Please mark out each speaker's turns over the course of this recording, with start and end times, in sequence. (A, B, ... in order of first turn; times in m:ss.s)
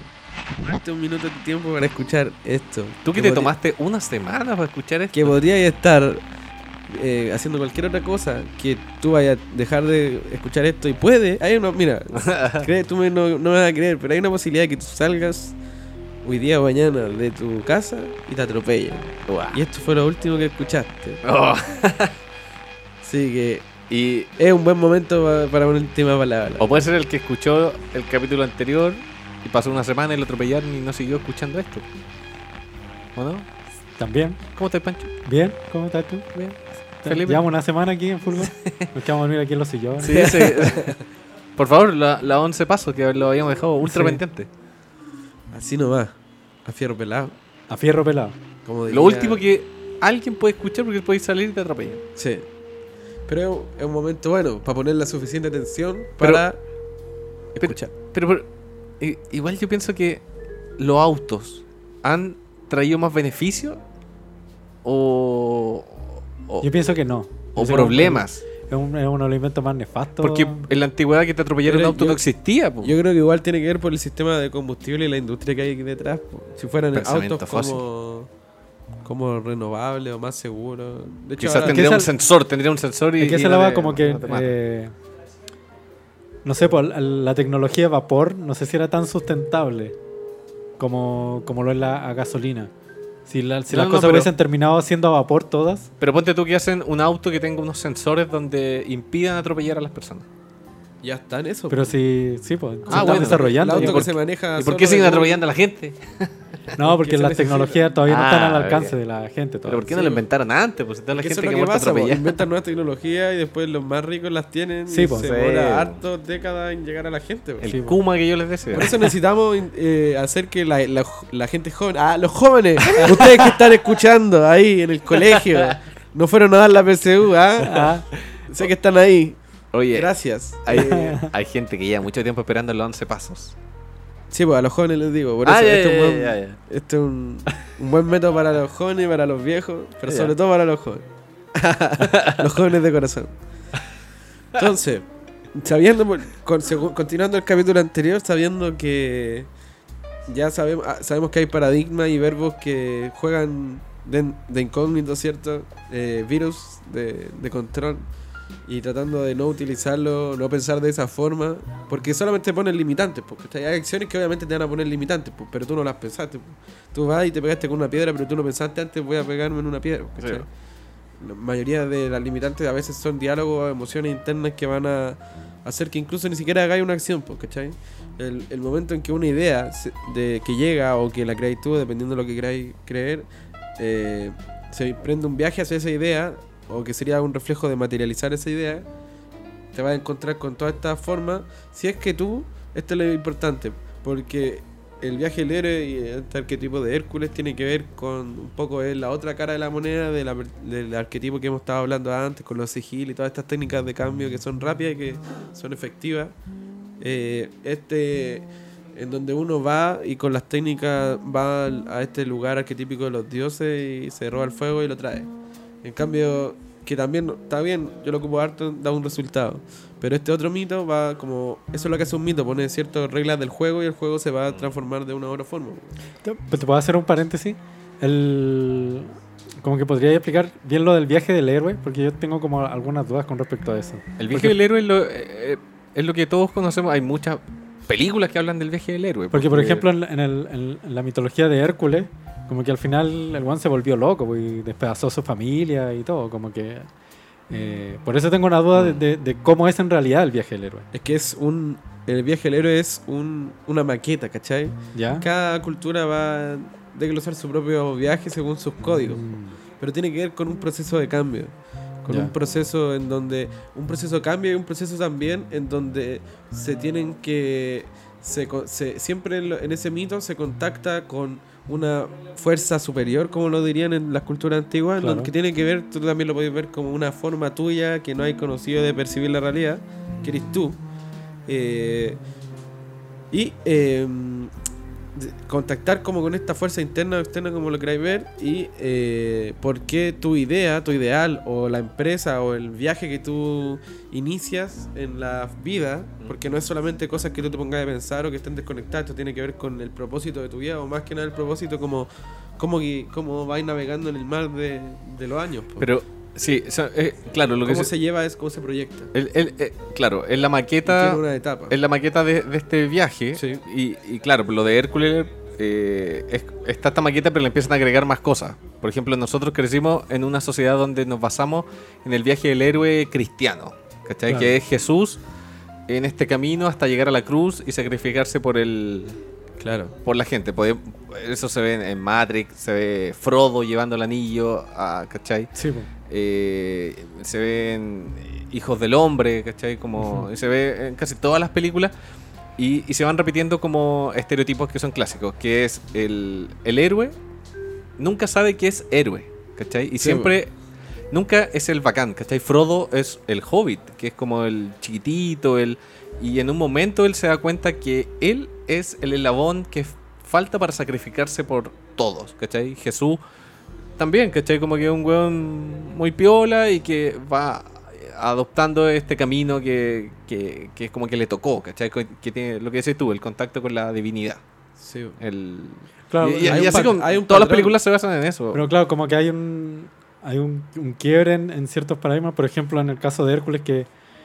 0:00.6-0:03.5 A
0:03.0-0:05.4 B
0:05.1-0:06.2 A
0:06.9-0:15.6 A
0:12.2-0:12.6 B
0:16.2-0:21.2 A
0:19.3-0:19.6 B
0:21.2-0:22.2 B
0:23.0-0:23.7 A
0:23.9-0:24.3 B
0:24.4-0:26.8 A
0:26.6-0:31.8 B
0:33.2-0:33.5 B
0:34.0-0:34.5 C
0:34.5-0:35.1 B
0:35.2-0:36.4 C
0:36.3-0:37.4 B
0:37.0-0:40.4 C
0:38.4-0:38.9 B
0:40.0-0:41.0 B
0:40.1-0:41.0 A
0:41.6-0:44.5 B
0:43.8-0:44.2 C
0:45.5-0:47.4 A
0:47.7-0:48.4 C
0:48.6-0:49.4 A
0:48.9-0:52.0 B
0:52.2-0:52.5 A
0:53.3-0:56.6 A
0:57.6-0:57.9 A
0:57.6-0:58.4 B
0:59.0-1:00.2 B
1:00.8-1:03.8 B
1:04.8-1:06.7 B
1:06.6-1:10.6 C
1:07.5-1:08.4 B
1:10.2-1:12.9 B
1:11.6-1:12.2 A
1:12.8-1:18.3 A
1:16.9-1:17.8 B
1:19.0-1:21.9 A
1:21.4-1:24.6 B
1:21.6-1:22.1 C
1:23.2-1:24.9 C
1:26.4-1:30.0 C
1:30.8-1:32.7 C
1:33.2-1:35.9 C
1:33.7-1:34.3 B
1:36.0-1:40.2 B
1:41.0-1:42.0 A
1:41.7-1:44.0 C
1:42.9-1:45.4 A
1:42.9-1:46.3 B
1:46.7-1:49.9 C
1:46.8-1:47.8 A
1:48.0-1:49.0 B
1:49.6-1:52.4 B
1:49.9-1:50.2 A
1:51.1-1:57.7 A
1:54.9-1:55.3 C
1:55.1-1:56.0 B
1:57.6-1:59.0 B
1:57.7-1:58.0 C
1:58.7-2:07.9 A
2:02.8-2:03.6 B
2:07.6-2:08.0 C
2:08.5-2:09.4 A
2:09.7-2:10.1 B
2:09.9-2:11.2 A
2:10.6-2:13.6 B
2:10.8-2:11.3 C
2:14.3-2:23.3 A
2:15.4-2:16.6 B
2:20.1-2:20.3 B
2:22.0-2:22.4 B
2:24.5-2:29.5 A
2:30.3-2:38.0 A
2:38.7-2:50.5 A
2:50.2-2:50.4 B
2:51.2-3:03.2 A
3:03.8-3:08.8 A
3:09.7-3:26.3 A
3:27.0-3:35.3 A
3:35.8-3:46.0 A
3:46.2-3:54.6 C
3:54.2-3:59.8 B
3:59.3-4:06.9 C
4:07.5-4:10.8 C
4:08.7-4:09.0 B
4:10.9-4:19.3 A
4:14.9-4:15.2 C
4:19.1-4:19.6 C
4:19.8-4:40.8 A
4:35.0-4:35.3 C
4:41.5-4:42.2 A
4:43.3-4:44.5 A
4:45.1-5:05.9 A
5:05.8-5:07.9 B
5:07.6-5:09.1 A
5:09.1-5:25.2 B
5:10.8-5:11.8 A
5:13.3-5:13.6 A
5:24.3-5:24.5 C
5:25.9-5:29.2 B
5:29.6-5:29.9 A
5:30.0-5:35.5 B
5:35.5-5:35.9 C
5:36.1-5:41.9 B
5:40.0-5:40.3 C
5:42.6-5:47.1 B
5:48.0-5:50.5 B
5:50.0-5:50.3 A
5:51.1-6:03.2 B
6:04.0-6:14.4 B
6:14.8-6:15.2 A
6:15.2-6:18.6 B
6:16.1-6:16.9 C
6:16.4-6:17.8 A
6:18.5-6:23.9 C